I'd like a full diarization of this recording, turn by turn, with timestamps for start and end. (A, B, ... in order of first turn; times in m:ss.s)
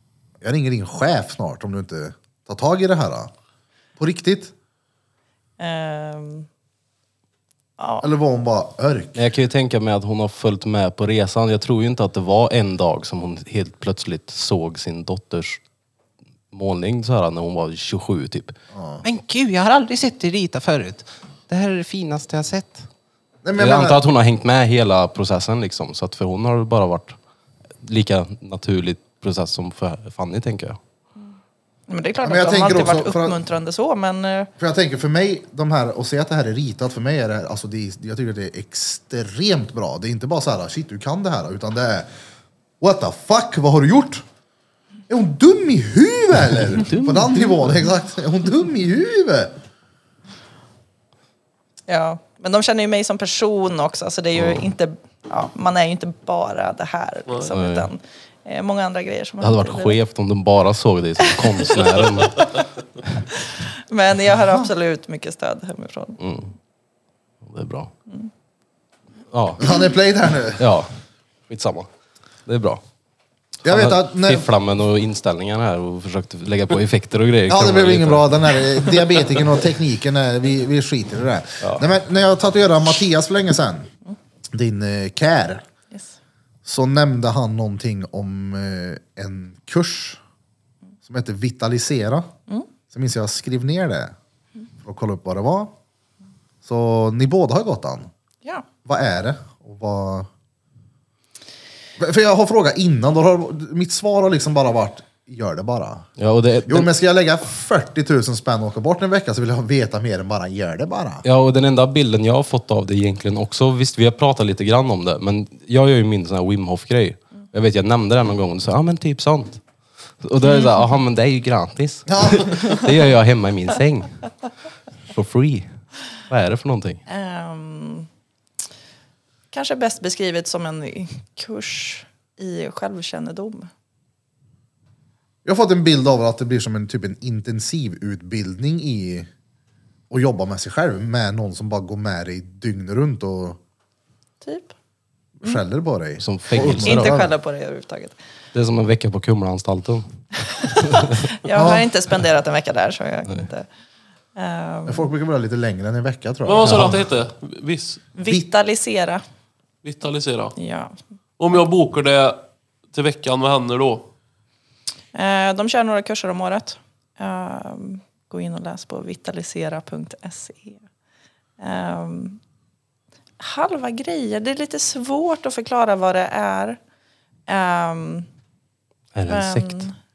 0:00.4-0:03.3 A
0:04.0-0:04.5 A
0:05.6-0:06.5 B
0:07.8-0:08.0 B
0:08.0-0:09.2 A
0:09.1-0:15.6 C
0:16.5-0:22.9 C
0:18.7-0:19.0 A
0:23.4-0:24.0 A
0:23.6-0:27.2 C
0:27.8-0:30.8 C
0:31.9-0:34.5 B
0:32.2-0:33.4 A
0:34.6-0:42.1 A
0:42.8-0:44.2 A
0:45.1-0:49.5 A
0:46.7-0:47.6 C
0:51.9-0:59.9 B
0:54.3-0:54.7 C
0:57.5-0:57.9 C
0:59.4-1:03.1 C
1:01.3-1:01.9 B
1:03.4-1:06.2 B
1:06.2-1:06.5 C
1:07.4-1:07.9 C
1:09.3-1:09.7 C
1:09.6-1:10.6 A
1:10.6-1:10.9 C
1:11.5-1:11.9 C
1:12.4-1:12.8 C
1:13.6-1:14.5 A
1:13.6-1:18.3 C
1:17.5-1:23.9 A
1:24.5-1:25.6 A
1:26.6-1:30.2 A
1:31.0-1:32.3 A
1:32.9-1:34.1 A
1:34.8-1:35.7 A
1:36.6-1:38.1 A
1:38.8-1:40.3 A
1:42.0-1:46.1 A
1:46.2-1:46.9 C
1:46.7-1:51.2 A
1:51.2-1:59.6 C
2:00.2-2:04.1 C
2:00.4-2:00.7 B
2:02.1-2:02.5 A
2:05.1-2:05.7 C
2:06.3-2:07.0 C
2:07.1-2:08.1 B
2:09.5-2:13.7 B
2:15.4-2:19.3 A
2:20.1-2:23.6 A
2:24.4-2:24.7 B
2:25.4-2:27.3 A
2:26.2-2:27.2 C
2:26.8-2:28.1 B
2:28.5-2:30.0 C
2:30.5-2:33.7 B
2:30.9-2:31.2 C
2:31.5-2:31.8 A
2:34.3-2:35.1 B
2:34.9-2:37.0 A
2:36.4-2:38.0 D
2:36.6-2:37.0 C
2:38.1-2:39.2 B
2:39.8-2:40.5 D
2:40.6-2:40.9 B
2:41.4-2:42.4 D
2:42.9-2:44.0 D
2:45.1-2:50.8 B
2:51.6-2:52.4 B
2:53.4-2:56.8 B
2:57.5-2:58.3 B
2:59.1-2:59.9 C
2:59.3-2:59.9 B